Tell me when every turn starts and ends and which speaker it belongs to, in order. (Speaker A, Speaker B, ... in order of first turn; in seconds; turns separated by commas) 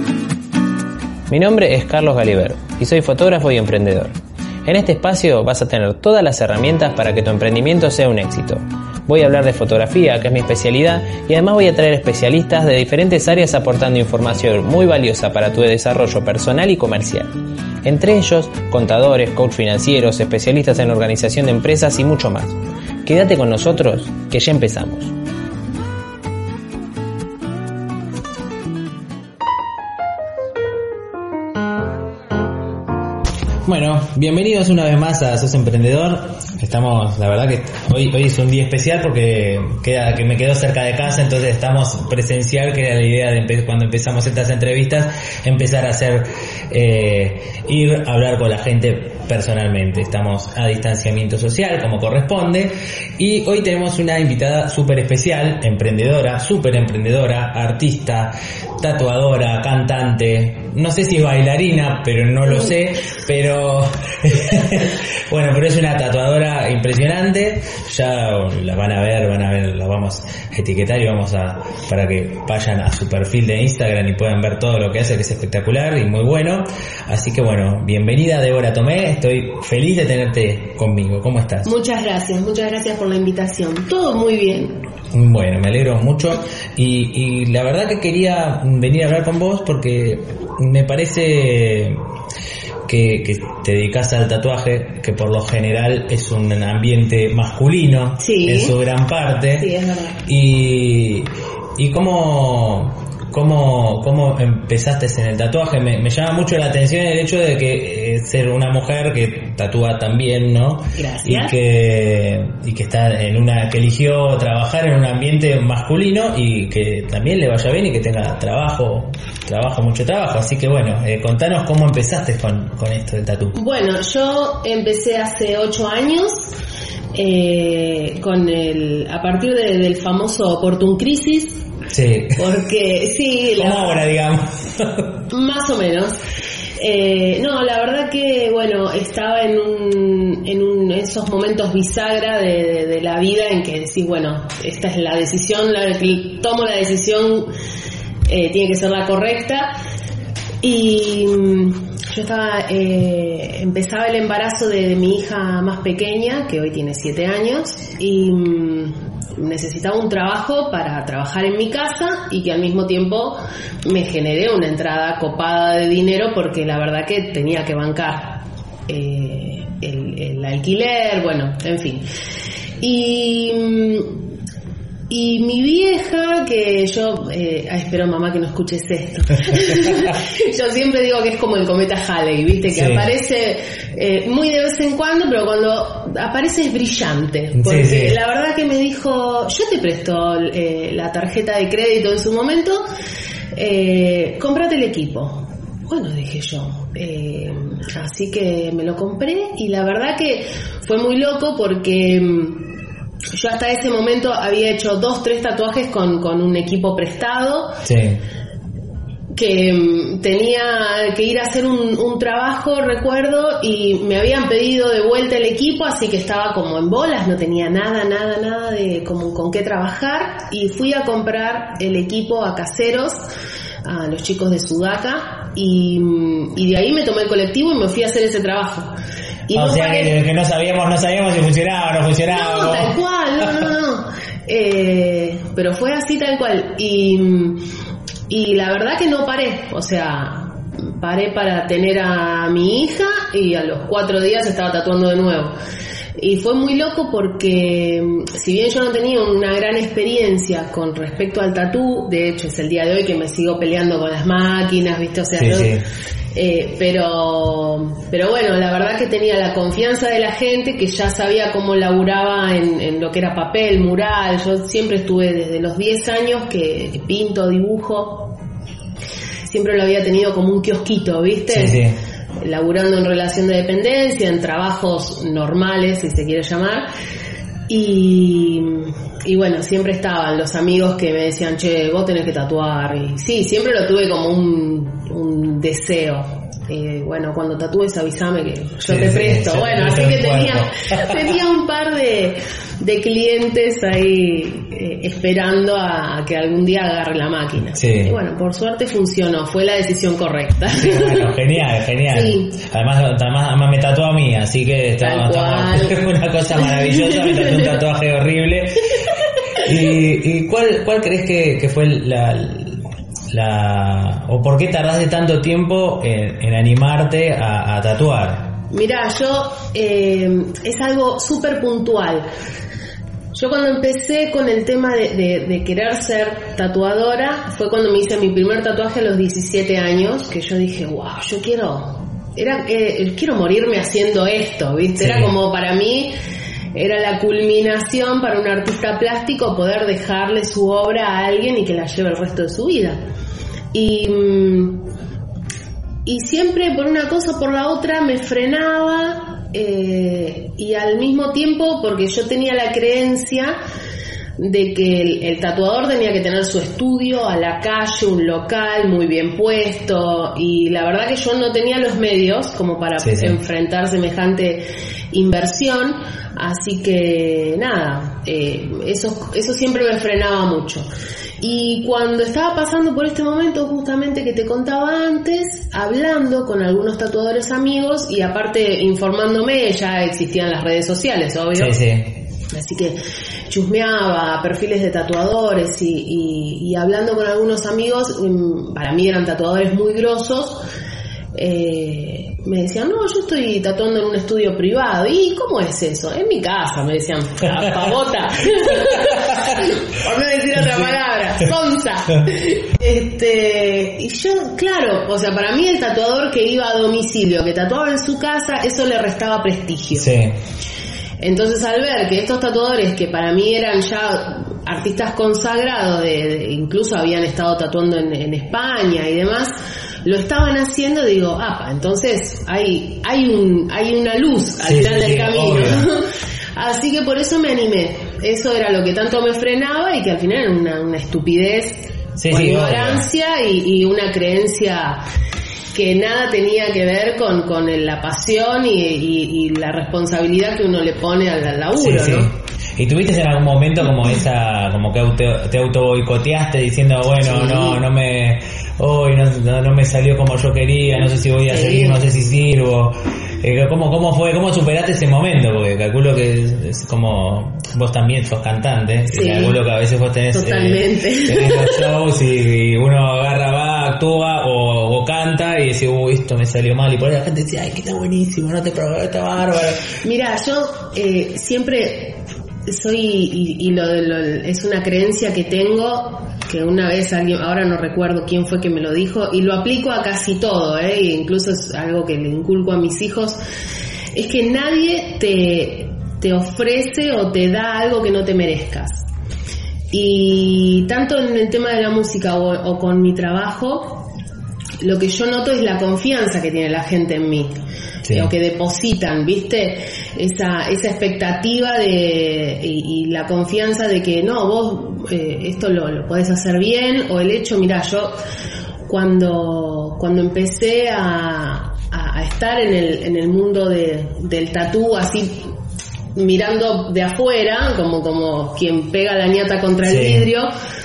Speaker A: 1.3-17.3, Speaker A: 17.8-25.1, Speaker A: 33.6-81.7, Speaker B: 81.6-84.8, Speaker A: 85.1-92.0, Speaker A: 92.8-99.7, Speaker B: 98.2-98.8, Speaker B: 99.5-100.2, Speaker A: 100.3-123.5, Speaker B: 110.9-111.5, Speaker B: 123.5-126.5, Speaker B: 127.1-131.6, Speaker A: 131.9-132.3, Speaker B: 132.3-134.0, Speaker A: 133.6-135.1, Speaker B: 135.3-136.2, Speaker B: 136.8-147.5, Speaker B: 148.3-149.8, Speaker B: 150.6-172.0, Speaker B: 172.8-174.2, Speaker B: 175.1-192.8, Speaker A: 182.7-183.1, Speaker A: 187.5-188.2, Speaker B: 193.5-202.7, Speaker B: 203.3-207.8, Speaker A: 207.8-208.2, Speaker B: 209.3-223.2, Speaker B: 223.8-228.9, Speaker B: 229.5-230.2, Speaker A: 229.5-232.9, Speaker B: 232.3-237.6, Speaker B: 238.3-245.5, Speaker B: 246.2-255.8, Speaker A: 255.4-255.8, Speaker B: 256.3-268.4, Speaker B: 269.4-271.8, Speaker A: 271.5-271.9, Speaker B: 272.4-276.9, Speaker B: 277.7-301.3, Speaker A: 288.9-291.2, Speaker A: 297.7-298.1, Speaker A: 300.7-309.0, Speaker B: 302.1-302.5, Speaker B: 305.0-306.0, Speaker B: 306.6-307.8, Speaker A: 309.6-318.5, Speaker B: 318.7-322.2, Speaker B: 323.3-336.1, Speaker A: 335.0-335.3, Speaker B: 336.7-343.0, Speaker B: 343.7-344.8, Speaker B: 346.0-353.6, Speaker B: 354.4-370.9, Speaker A: 363.0-363.4, Speaker B: 371.4-381.8, Speaker A: 381.5-382.2, Speaker B: 382.5-390.6, Speaker B: 391.3-410.1, Speaker A: 409.9-410.3, Speaker B: 411.2-419.5, Speaker B: 420.0-435.0, Speaker A: 424.6-425.9, Speaker A: 432.2-433.0, Speaker B: 435.7-442.3, Speaker A: 441.8-469.9, Speaker B: 447.2-447.8, Speaker B: 451.4-452.0, Speaker B: 459.1-459.6, Speaker B: 460.3-461.9, Speaker B: 470.0-483.4, Speaker B: 484.1-489.1, Speaker B: 489.9-494.1, Speaker B: 494.8-497.5, Speaker A: 498.0-498.3, Speaker B: 498.1-508.1, Speaker B: 508.9-515.4, Speaker B: 516.1-520.5, Speaker A: 519.9-520.3